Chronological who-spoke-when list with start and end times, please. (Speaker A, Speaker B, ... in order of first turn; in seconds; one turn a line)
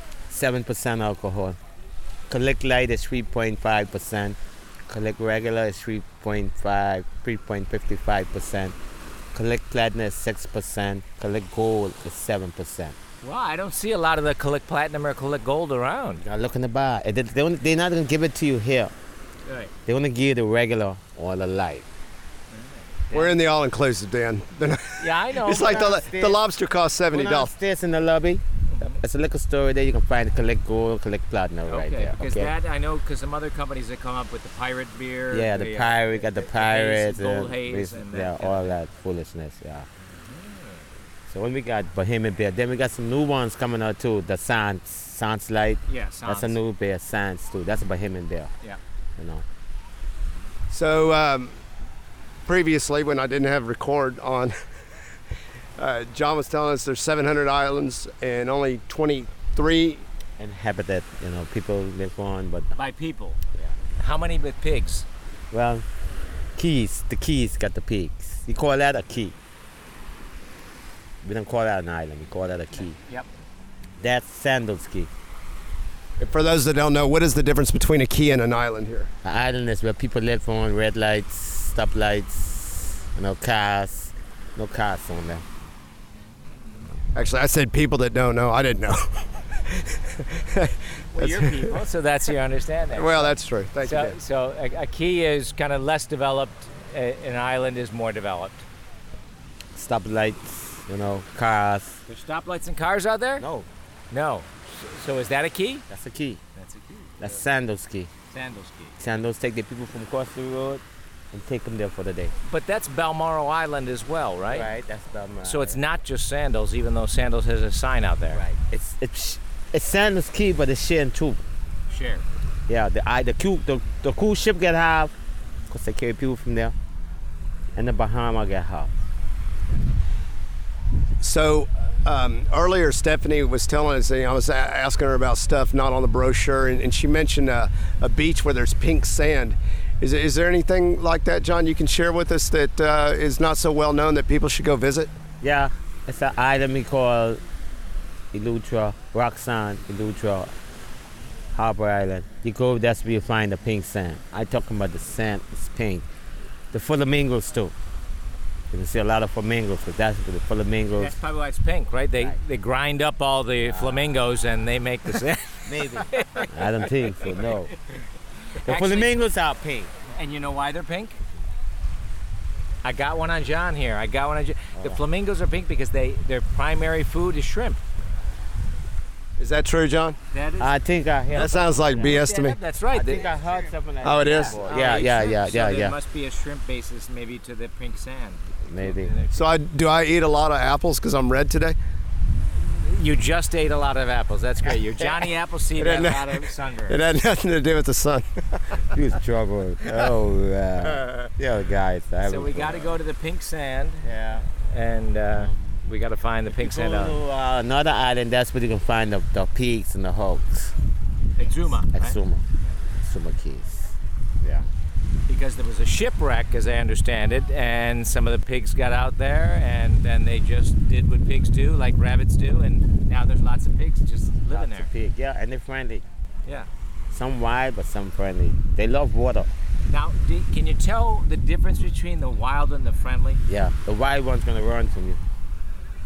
Speaker A: 0.3-1.6
Speaker A: 2.3-4.4
Speaker A: 4.9-8.7
Speaker A: 9.3-12.9
Speaker B: 13.2-16.2
Speaker A: 16.2-18.9
Speaker B: 19.4-19.7
Speaker A: 19.9-21.9
Speaker B: 22.5-23.4
Speaker C: 23.1-27.5
Speaker B: 25.0-26.1
Speaker A: 25.7-26.4
Speaker A: 27.1-32.5
Speaker B: 28.7-29.0
Speaker B: 31.7-38.7
Speaker A: 35.3-39.9
Speaker B: 40.0-40.8
Speaker A: 41.3-48.5
Speaker B: 45.9-46.5
Speaker A: 49.2-49.4
Speaker C: 50.7-51.6
Speaker C: 52.5-54.5
Speaker C: 55.8-60.0
Speaker A: 60.4-62.7
Speaker B: 62.7-63.4
Speaker B: 64.0-65.0
Speaker A: 65.5-65.8
Speaker A: 66.5-69.3
Speaker A: 71.2-73.0
Speaker B: 72.9-73.3
Speaker A: 74.0-75.1
Speaker C: 76.2-79.1
Speaker A: 79.2-85.4
Speaker C: 87.1-91.8
Speaker B: 91.1-98.7
Speaker C: 92.9-94.2
Speaker A: 99.7-102.0
Speaker B: 102.1-103.5
Speaker A: 103.4-103.7
Speaker B: 104.1-105.8
Speaker A: 105.9-106.4
Speaker B: 106.5-107.4
Speaker A: 107.2-108.1
Speaker B: 108.3-109.0
Speaker A: 109.0-112.3
Speaker B: 112.5-114.7
Speaker A: 114.5-115.8
Speaker B: 115.4-118.4
Speaker A: 118.3-121.4
Speaker B: 121.9-122.2
Speaker A: 122.7-125.1
Speaker A: 125.7-126.7
Speaker A: 127.7-128.9
Speaker C: 131.2-145.1
Speaker A: 145.4-147.4
Speaker A: 148.3-150.5
Speaker A: 151.5-156.0
Speaker A: 156.7-157.7
Speaker A: 158.7-161.2
Speaker B: 160.9-166.5
Speaker A: 163.6-164.3
Speaker A: 165.6-167.7
Speaker B: 167.2-167.7
Speaker B: 168.5-169.2
Speaker A: 168.6-169.9
Speaker B: 170.1-171.2
Speaker B: 172.8-177.8
Speaker A: 174.8-175.0
Speaker C: 179.4-180.2
Speaker B: 180.3-180.7
Speaker A: 180.6-182.2
Speaker C: 181.3-182.6
Speaker B: 181.4-183.4
Speaker A: 182.9-185.9
Speaker C: 184.0-184.6
Speaker B: 184.1-189.5
Speaker A: 188.7-189.1
Speaker C: 189.3-191.8
Speaker B: 192.6-197.0
Speaker C: 195.8-198.8
Speaker A: 198.9-203.0
Speaker B: 202.2-204.1
Speaker A: 204.0-204.5
Speaker B: 204.6-207.2
Speaker A: 206.5-210.7
Speaker B: 211.4-212.2
Speaker A: 211.9-212.4
Speaker A: 213.0-214.7
Speaker B: 215.3-224.9
Speaker A: 224.5-226.0
Speaker A: 227.1-229.5
Speaker B: 229.9-233.4
Speaker A: 233.4-235.2